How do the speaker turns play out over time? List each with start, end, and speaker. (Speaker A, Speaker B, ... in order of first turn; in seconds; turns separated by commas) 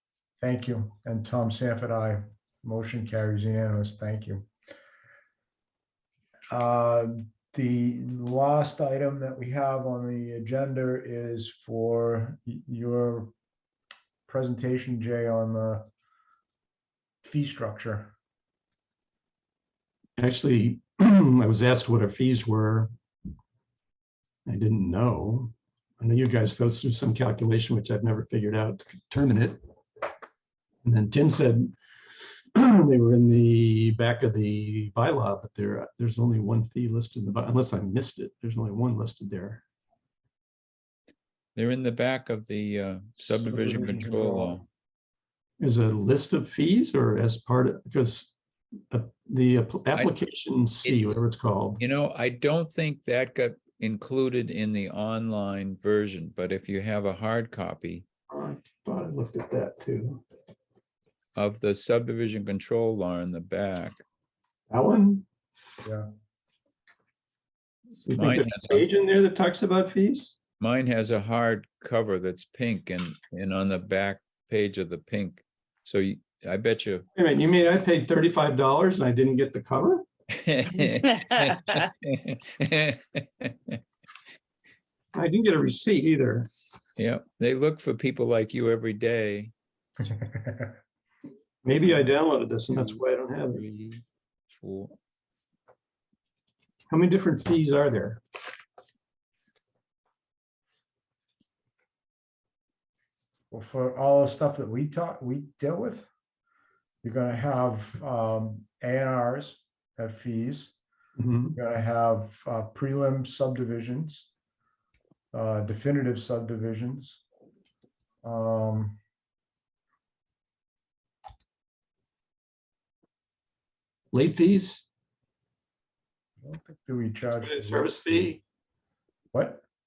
Speaker A: 0.4-4.5, Speaker A: 6.5-13.3, Speaker A: 14.2-15.9, Speaker A: 17.2-18.1, Speaker B: 20.2-22.9, Speaker B: 24.4-29.6, Speaker B: 30.8-31.7, Speaker B: 32.5-39.6, Speaker C: 41.5-44.6, Speaker A: 43.2-44.6, Speaker B: 45.6-48.3, Speaker B: 48.9-51.8, Speaker C: 51.8-58.0, Speaker B: 58.3-60.2, Speaker C: 61.4-64.0, Speaker B: 64.7-65.2, Speaker A: 65.8-66.1, Speaker B: 68.0-70.4, Speaker C: 68.1-68.8, Speaker C: 70.6-77.0, Speaker B: 77.2-80.0, Speaker C: 80.3-83.8, Speaker B: 85.1-86.5, Speaker C: 87.0-89.5, Speaker A: 90.0-90.8, Speaker B: 91.6-93.6, Speaker C: 92.7-95.0, Speaker B: 96.9-98.2, Speaker A: 103.5-106.1, Speaker A: 107.0-110.8, Speaker B: 111.2-111.6, Speaker A: 111.5-114.3, Speaker A: 115.3-117.2, Speaker A: 118.2-119.0, Speaker B: 124.1-124.8, Speaker A: 126.4-128.4, Speaker B: 127.3-128.4, Speaker A: 129.3-129.6